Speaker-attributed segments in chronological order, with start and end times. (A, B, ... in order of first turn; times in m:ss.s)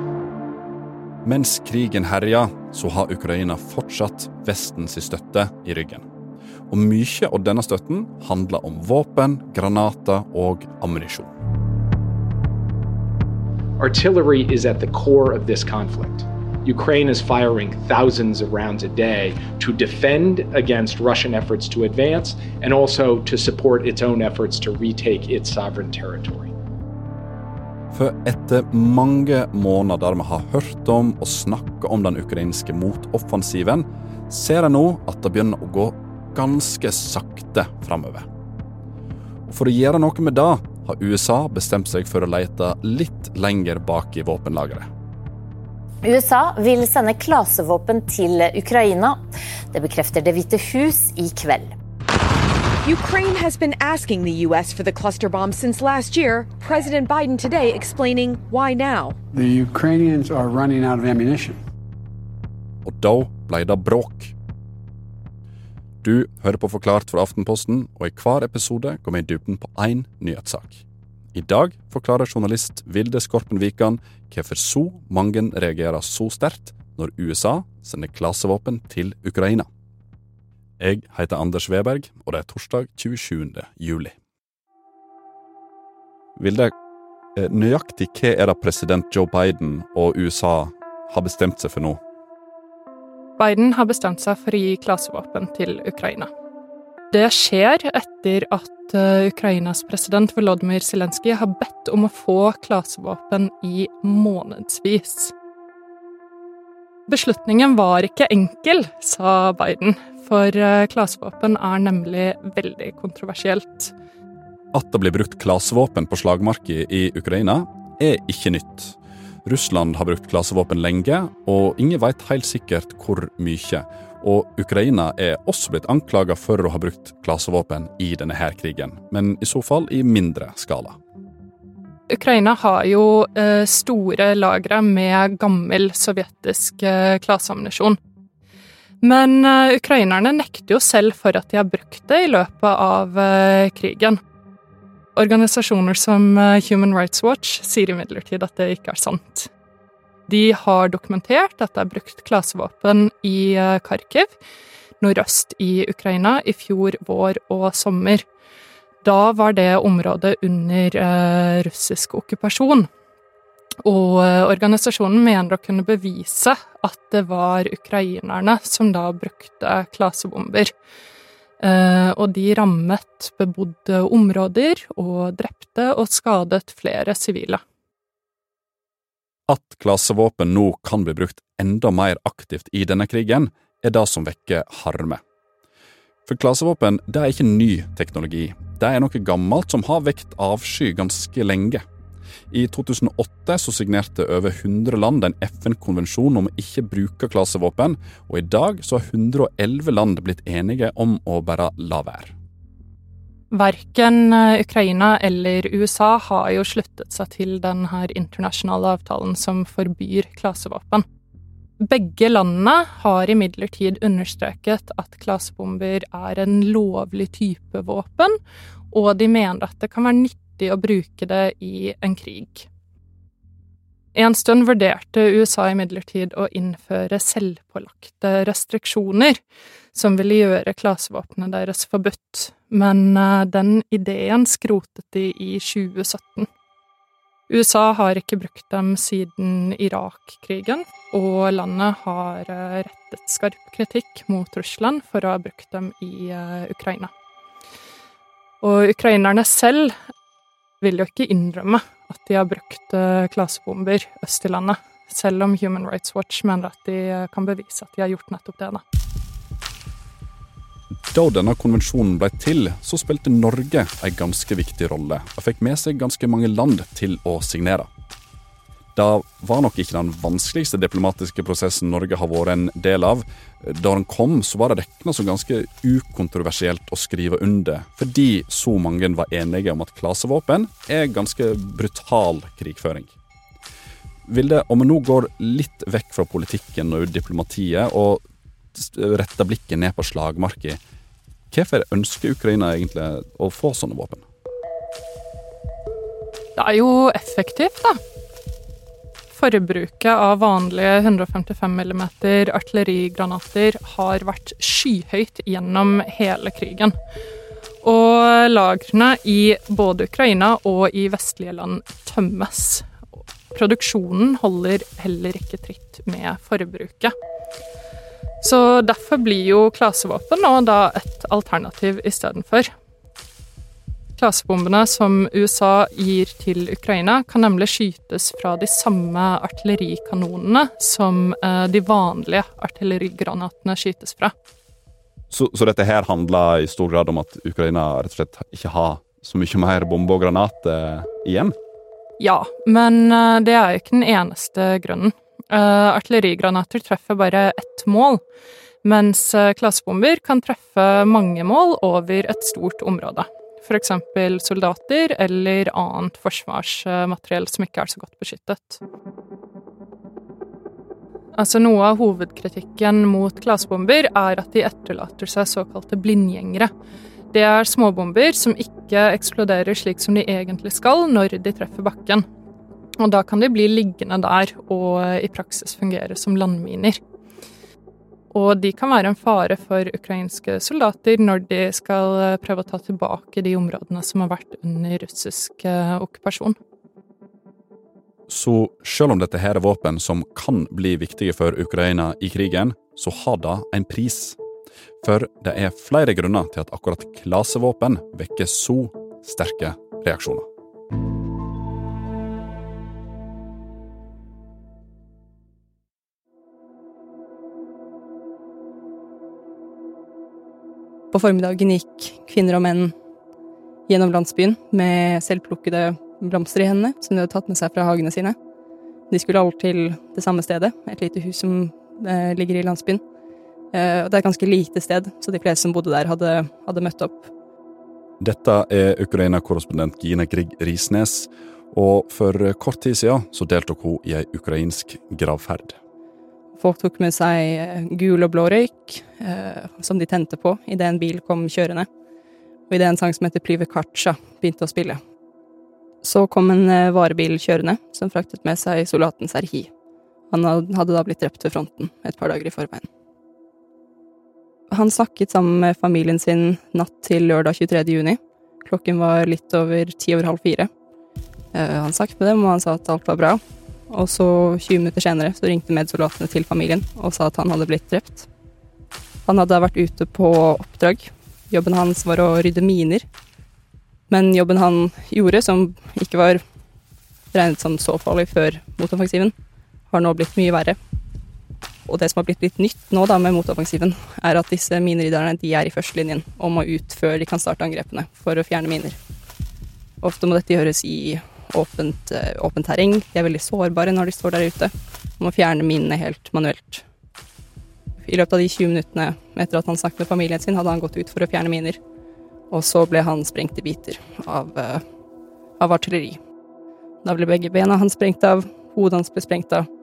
0:01.2-0:06.0 A
0:06.7-0:11.3 A
0:13.8-0:26.5 B
0:27.9-0:38.3 A
0:39.5-0:44.9 A
0:46.0-0:51.7 C
0:52.8-0:59.1 D
0:59.3-1:01.6 E
1:02.8-1:04.3 A
1:06.0-1:19.7 A
1:20.8-1:24.1 A
1:26.4-1:26.7 A
1:27.4-1:32.0 A
1:33.4-1:36.3 F
1:37.1-1:45.3 F
1:47.1-1:53.9 F
1:54.7-2:11.0 A
2:12.1-2:18.0 F
2:19.0-2:24.2 F
2:25.1-2:29.5 F
2:30.3-2:34.3 F
2:35.0-2:38.2 F
2:39.0-2:42.8 F
2:43.8-2:50.7 F
2:51.6-2:57.6 F
2:59.5-3:05.2 A
3:06.2-3:11.8 A
3:12.5-3:22.3 A
3:23.5-3:31.0 F
3:31.8-3:38.4 F
3:38.9-3:42.5 F
3:44.1-3:49.4 F
3:49.9-3:56.5 F
3:57.5-4:07.1 F
4:08.6-4:09.9 F
4:10.8-4:18.8 F
4:21.1-4:27.9 A
4:28.9-4:43.1 A
4:44.3-4:48.2 A
4:48.7-4:50.8 A
4:51.5-4:54.2 A
4:56.6-4:58.0 F
4:59.3-5:06.9 F
5:07.8-5:12.9 F
5:13.5-5:17.1 F
5:18.4-5:22.6 F
5:24.2-5:34.3 F
5:35.3-5:41.6 A
5:42.2-5:48.2 F
5:48.8-5:58.8 F
6:01.4-6:06.7 F
6:07.3-6:12.2 F
6:13.0-6:17.0 F
6:18.3-6:26.6 F
6:28.3-6:34.4 A
6:35.0-6:40.4 A
6:51.1-6:52.9 G
6:53.9-6:58.3 G
6:59.1-7:03.0 G
7:03.7-7:07.3 G
7:08.2-7:15.8 A
7:16.6-7:21.9 G
7:22.7-7:25.0 G
7:26.0-7:29.7 G
7:30.3-7:32.8 G
7:34.7-7:40.7 G
7:41.5-7:48.3 G
7:49.2-7:53.0 G
7:54.1-7:56.4 G
7:57.3-7:59.3 G
7:59.9-8:00.8 G
8:01.8-8:09.0 G
8:10.0-8:16.8 G
8:18.0-8:21.8 G
8:22.5-8:24.8 G
8:25.6-8:26.2 G
8:27.0-8:29.7 G